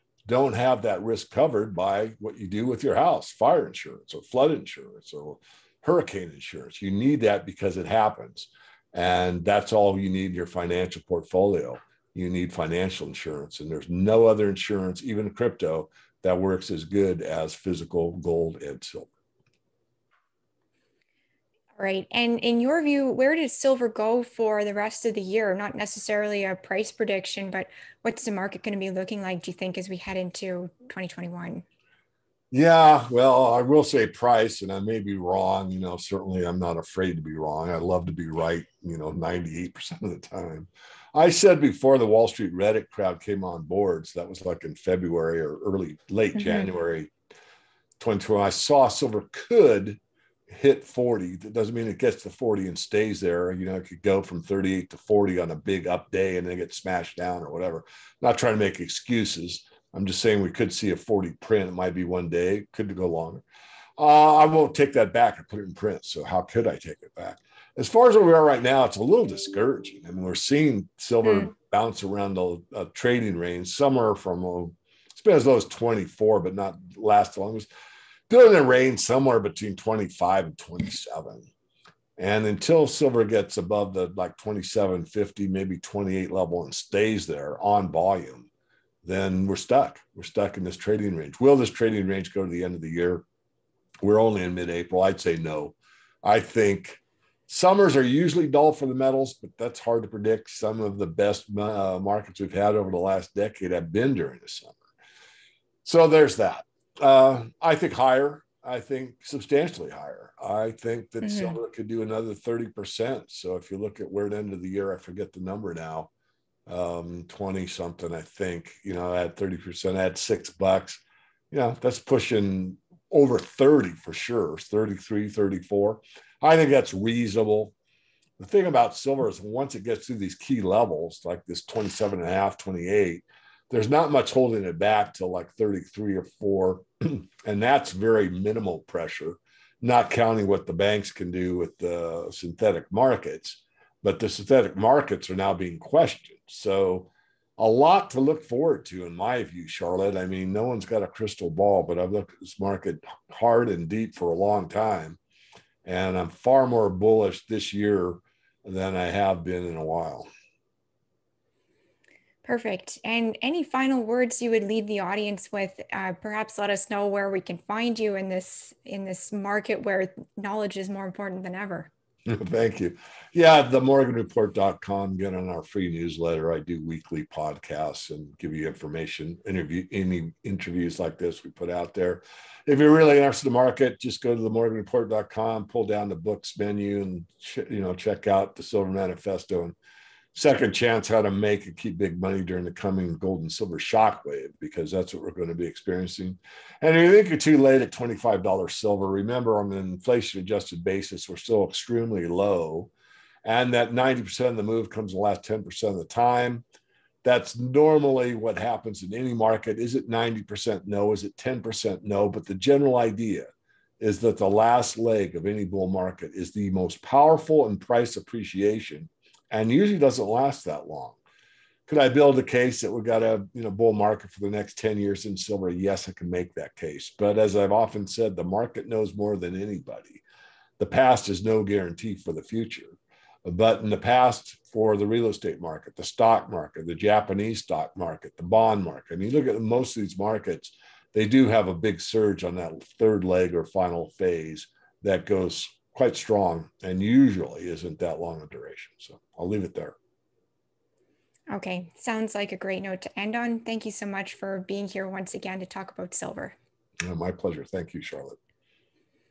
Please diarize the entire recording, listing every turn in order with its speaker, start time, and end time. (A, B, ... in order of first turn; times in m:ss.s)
0:00.3-0:19.1 A
0:21.8-0:31.6 B
0:32.5-0:47.1 A
0:46.4-0:46.7 B
0:48.0-1:03.4 A
1:04.0-1:17.7 A
1:18.3-1:21.5 A
1:22.2-1:28.5 A
1:29.0-1:33.2 A
1:34.0-1:44.8 A
1:45.8-1:56.1 A
1:51.2-1:51.5 B
1:56.6-2:07.7 A
2:08.4-2:35.2 A
2:35.8-2:40.3 A
2:42.4-2:51.9 B
2:52.3-3:09.8 A
3:10.3-3:22.9 A
3:23.4-3:26.6 A
3:27.2-3:33.5 A
3:34.0-3:41.2 A
3:41.9-3:50.2 A
3:50.8-4:10.0 A
4:11.5-4:16.6 B
4:17.0-4:18.4 A